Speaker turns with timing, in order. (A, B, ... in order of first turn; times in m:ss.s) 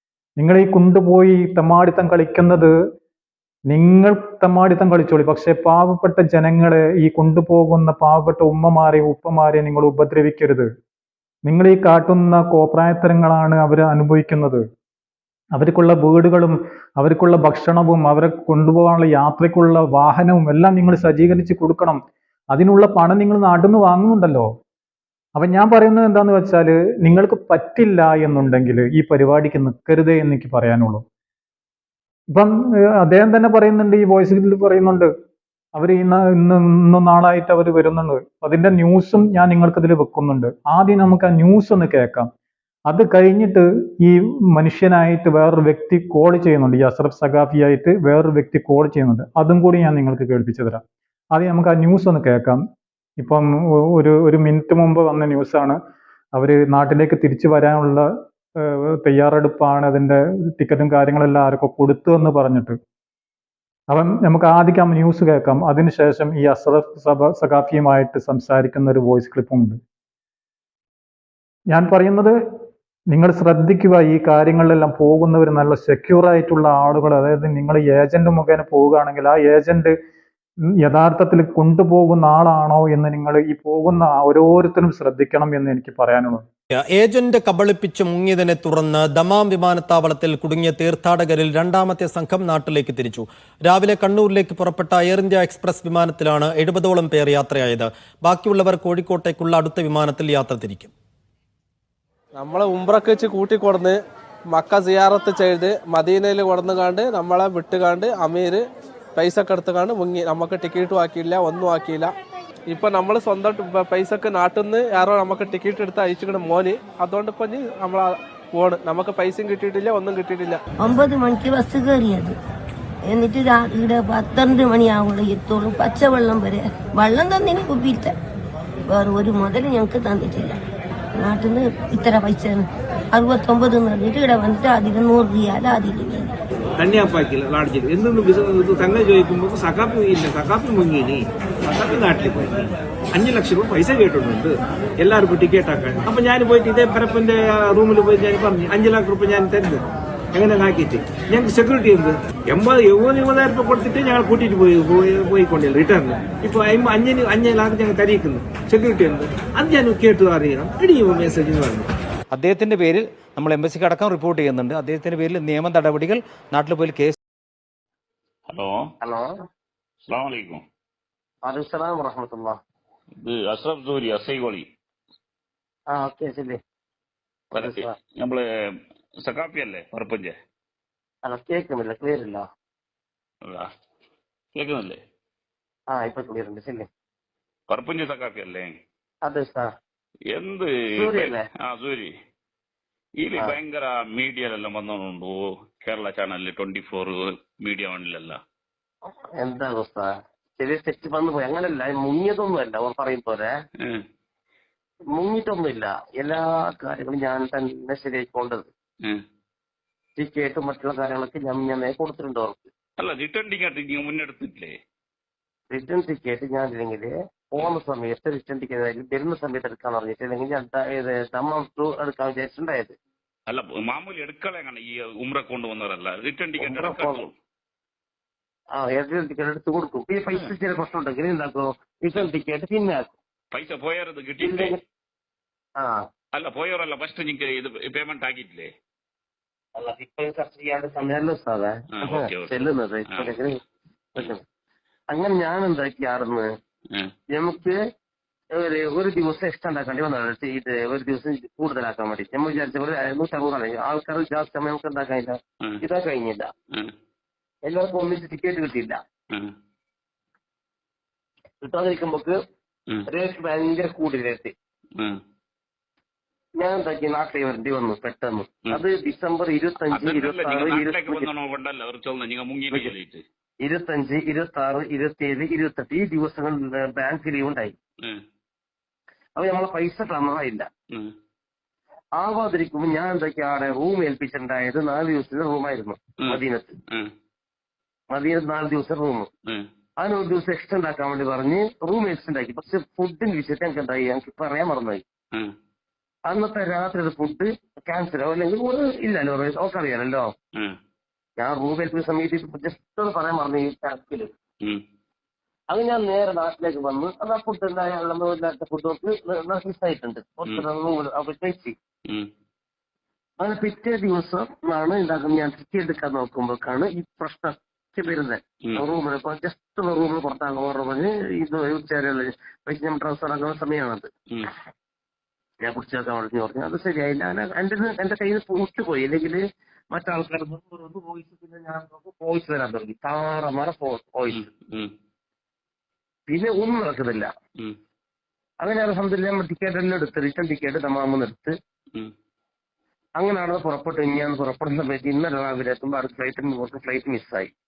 0:00.4-0:02.7 A
0:03.7-0:10.7 A
0:11.4-0:14.6 A
0:15.6-0:24.5 A
0:25.4-0:31.0 A
0:32.3-0:35.1 A
0:35.8-0:42.3 A
0:42.9-0:52.6 A
0:53.2-0:55.8 A
0:56.4-0:58.0 A
0:58.6-1:02.8 A
1:03.9-1:09.8 A
1:11.7-1:12.3 A
1:13.1-1:19.9 A
1:20.8-1:26.4 A
1:26.8-1:40.9 B
1:42.4-1:44.0 C
1:44.5-1:48.6 C
1:49.2-1:52.1 C
1:52.7-2:00.6 C
2:00.8-2:02.4 D
2:03.0-2:08.1 D
2:08.9-2:10.6 D
2:11.2-2:16.3 D
2:16.8-2:29.8 E
2:30.3-2:41.9 E
2:42.3-2:47.1 F
2:48.5-2:48.8 G
2:49.0-2:49.3 H
2:50.1-2:50.6 G
2:51.4-2:52.6 H
2:53.2-2:54.6 G
2:55.9-2:56.6 H
2:57.5-2:57.9 H
2:57.5-2:58.4 G
2:59.2-3:00.3 G
3:01.2-3:02.4 H
3:04.5-3:05.0 G
3:05.9-3:06.9 H
3:07.7-3:08.7 G
3:09.2-3:09.7 H
3:10.3-3:12.1 G
3:10.9-3:11.4 H
3:13.2-3:18.4 G
3:19.1-3:23.5 H
3:25.1-3:28.7 H
3:30.2-3:32.7 H
3:33.0-3:34.7 G
3:35.7-3:42.9 H
3:43.5-3:47.3 G
3:46.6-3:47.2 H
3:48.8-3:53.1 H
3:53.5-3:54.8 G
3:54.4-3:54.8 H
3:56.3-3:58.7 G
3:59.8-4:03.6 H
4:02.0-4:03.4 G
4:04.2-4:04.4 H
4:05.1-4:06.5 H
4:07.3-4:07.8 H
4:08.5-4:16.5 H
4:17.6-4:19.0 H
4:21.6-4:22.4 H
4:23.1-4:24.5 H
4:26.6-4:31.3 H
4:29.9-4:33.2 G
4:33.6-4:37.7 H
4:39.4-4:40.7 H
4:42.2-4:46.7 H
4:46.2-4:47.1 G
4:48.1-4:49.3 H
4:50.0-4:55.0 H
4:56.3-5:00.3 H
5:01.4-5:04.3 H
5:05.7-5:11.7 H
5:13.4-5:24.1 H
5:25.6-5:34.5 H
5:34.3-5:34.9 G
5:36.3-5:37.3 H
5:38.6-5:41.5 H
5:43.2-5:47.5 H